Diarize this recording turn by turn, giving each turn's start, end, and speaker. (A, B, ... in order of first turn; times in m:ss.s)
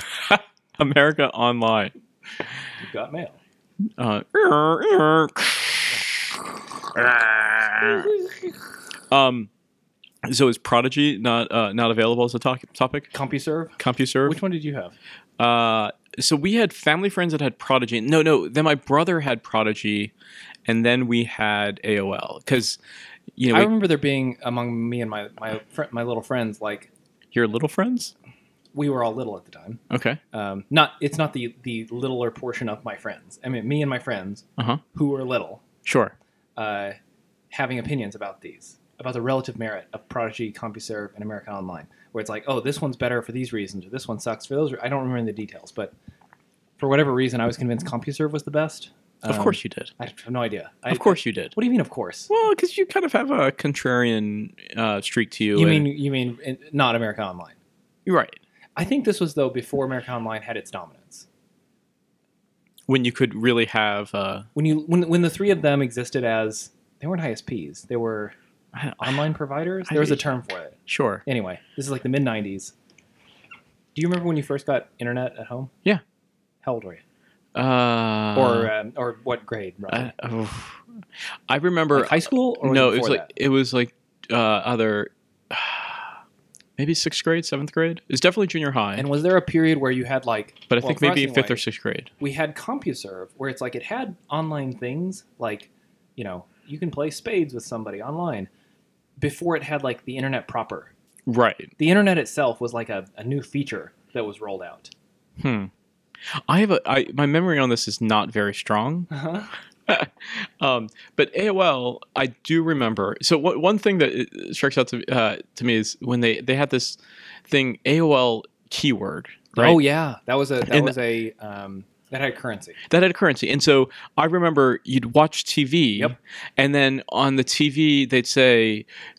0:00.3-0:01.9 A
0:02.8-0:03.4 B
0:04.0-0:08.1 A
0:07.8-0:08.6 B
0:09.1-0:09.5 A
0:10.3-0:13.1 A
0:13.1-0:14.9 B
0:13.8-0:14.4 A
0:15.4-0:20.1 A
0:20.7-0:22.8 A
0:23.4-0:23.7 A
0:23.5-0:26.9 B
0:27.3-0:28.1 A
0:28.7-0:29.8 B
0:29.9-0:30.2 A
0:30.3-0:35.6 B
0:35.8-0:36.1 A
0:36.6-0:37.0 B
0:37.5-0:45.9 B
0:46.8-0:52.3 B
0:49.3-0:49.9 A
0:50.9-0:51.5 A
0:52.3-0:55.9 A
0:55.5-0:57.6 B
0:58.0-0:58.4 A
0:58.8-1:01.2 B
1:02.9-1:04.5 A
1:04.5-1:08.4 B
1:08.7-1:09.2 A
1:09.0-1:12.7 B
1:09.9-1:10.2 A
1:10.9-1:11.2 A
1:13.9-1:15.7 B
1:16.6-1:17.0 B
1:17.6-1:18.7 A
1:18.3-1:20.1 B
1:19.9-1:20.8 A
1:21.5-1:26.2 A
1:21.9-1:23.3 B
1:26.8-1:29.1 A
1:29.0-1:31.6 B
1:30.7-1:32.1 A
1:32.2-1:38.5 B
1:39.2-1:40.9 B
1:41.3-1:41.7 A
1:41.8-1:44.9 B
1:45.4-1:45.7 A
1:46.5-1:49.1 A
1:49.1-1:49.5 B
1:49.9-1:59.8 A
1:59.6-2:02.8 B
2:00.6-2:00.9 A
2:02.9-2:08.8 A